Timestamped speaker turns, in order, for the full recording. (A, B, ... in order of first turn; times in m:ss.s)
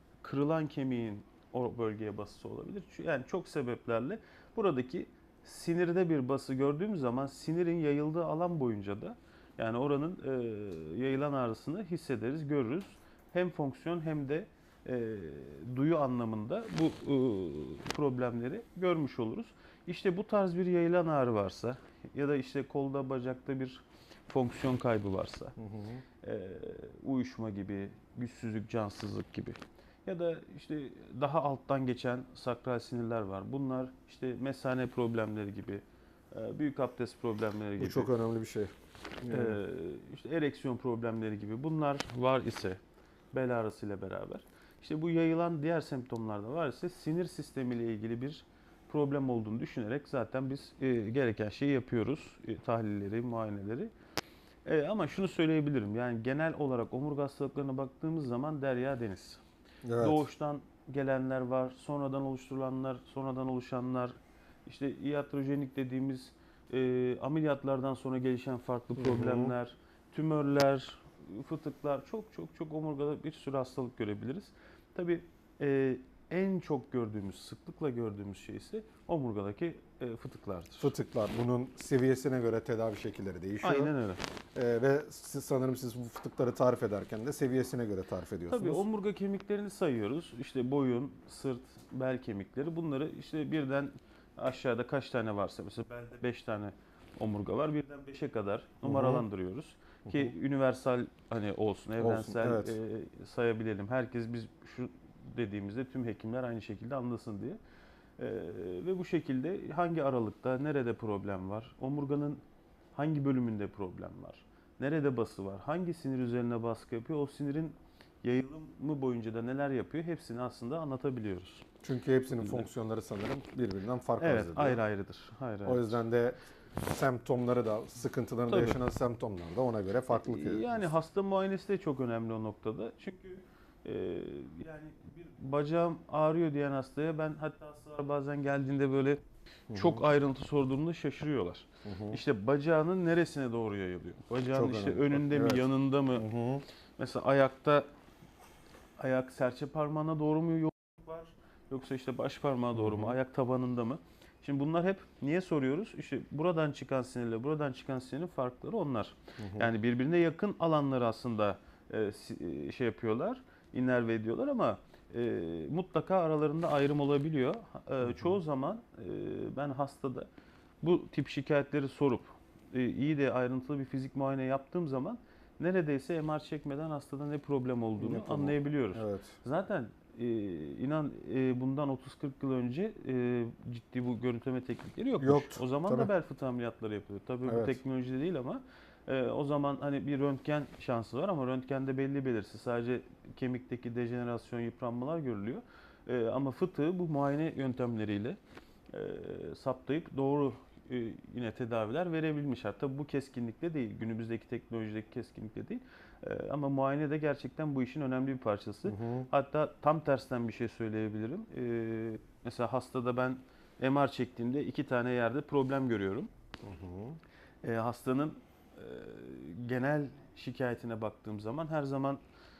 0:00.2-0:25.5 A
0:25.6-0:26.0 B
0:26.2-0:38.1 A
0:37.8-0:39.6 B
0:39.3-0:42.8 A
0:43.3-0:53.9 A
0:54.6-0:59.4 A
0:59.8-1:00.2 B
1:00.0-1:20.9 A
1:09.0-1:09.5 B
1:20.8-1:23.9 B
1:23.6-1:24.2 A
1:24.5-1:28.8 B
1:28.5-1:47.6 A
1:38.8-1:39.2 B
1:40.1-1:40.3 B
1:42.0-1:42.8 B
1:48.2-1:52.4 A
1:52.9-2:01.6 A
2:01.8-2:04.8 B
2:04.2-2:06.0 A
2:05.6-2:10.9 B
2:08.5-2:08.8 A
2:10.1-2:26.3 A
2:19.7-2:20.0 B
2:21.8-2:22.2 B
2:24.5-2:25.6 B
2:26.2-2:26.6 B
2:27.0-2:27.8 A
2:29.0-2:50.3 A
2:32.7-2:33.2 B
2:39.4-2:39.7 B
2:48.0-2:48.4 B
2:50.8-3:18.4 A
2:58.0-2:59.4 B
3:05.2-3:06.1 B
3:07.4-3:07.8 B
3:18.9-3:36.3 A
3:28.8-3:29.3 B
3:36.6-3:37.2 B
3:37.6-3:42.2 A